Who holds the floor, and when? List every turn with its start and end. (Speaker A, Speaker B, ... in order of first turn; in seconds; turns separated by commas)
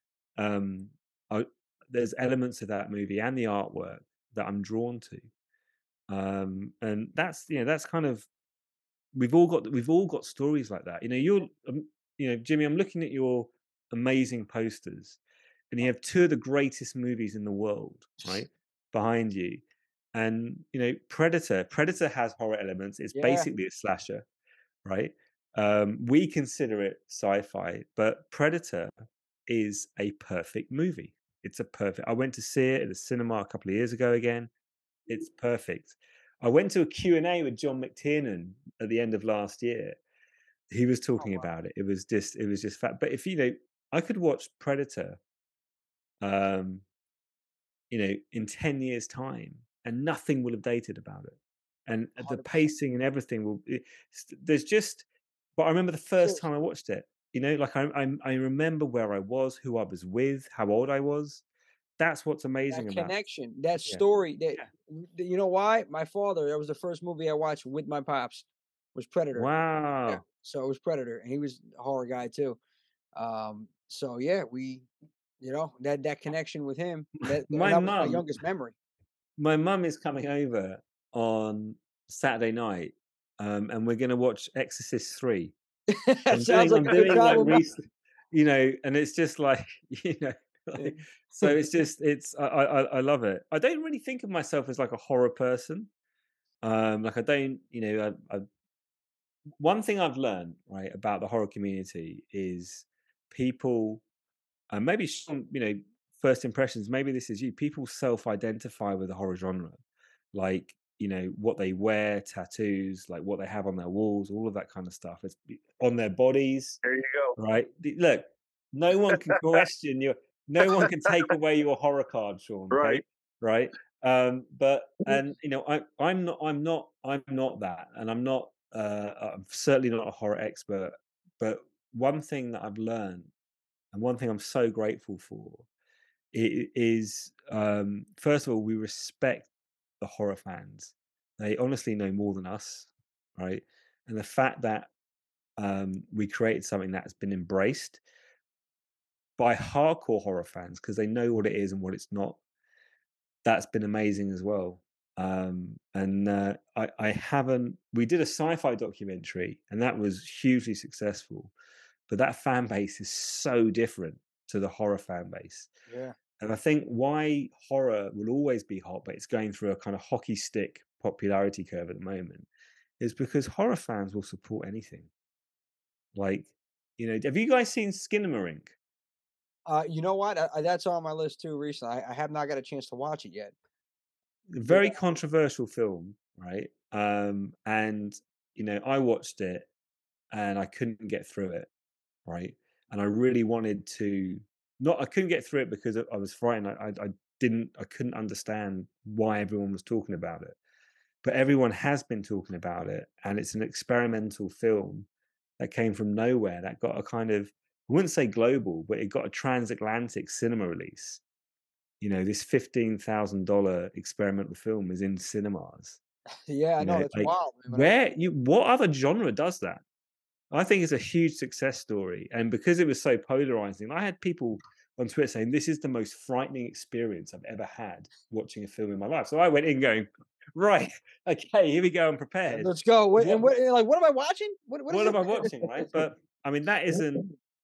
Speaker A: 0.4-5.3, Speaker A: 6.1-8.3, Speaker A: 9.1-15.2, Speaker A: 15.7-19.6, Speaker A: 20.1-24.3, Speaker B: 23.1-23.5, Speaker A: 24.8-28.9, Speaker A: 29.5-34.5, Speaker A: 35.1-40.0, Speaker A: 40.7-45.2, Speaker B: 41.2-41.5, Speaker A: 46.2-46.8, Speaker A: 47.9-55.0, Speaker B: 52.2-52.7, Speaker A: 55.6-61.4, Speaker A: 62.0-63.1, Speaker B: 62.7-69.5, Speaker A: 69.3-70.2, Speaker B: 70.0-72.6, Speaker B: 73.2-74.9, Speaker B: 75.4-78.7, Speaker A: 77.3-78.3, Speaker A: 79.4-85.5, Speaker B: 85.9-87.6, Speaker A: 86.3-95.9, Speaker C: 86.9-87.6, Speaker B: 90.8-91.6, Speaker A: 96.6-98.5, Speaker A: 99.6-104.0, Speaker A: 104.7-109.8, Speaker A: 110.3-116.8, Speaker C: 116.8-117.4, Speaker A: 117.4-133.3, Speaker C: 120.7-121.1, Speaker C: 122.7-123.0, Speaker A: 133.9-135.7, Speaker A: 136.3-144.9, Speaker A: 145.6-148.0, Speaker A: 149.4-152.4, Speaker A: 153.4-161.5, Speaker A: 162.1-165.7, Speaker B: 165.9-166.2, Speaker A: 166.4-172.5, Speaker A: 173.0-175.1, Speaker A: 176.1-178.7, Speaker B: 179.7-183.5, Speaker A: 184.5-189.7, Speaker B: 184.7-185.0, Speaker A: 190.3-191.7, Speaker A: 192.2-200.6, Speaker A: 201.2-205.1, Speaker A: 205.6-211.2, Speaker A: 212.0-216.0, Speaker B: 216.5-217.9, Speaker A: 216.8-219.8, Speaker A: 220.5-233.5, Speaker B: 232.5-235.5, Speaker A: 234.9-237.3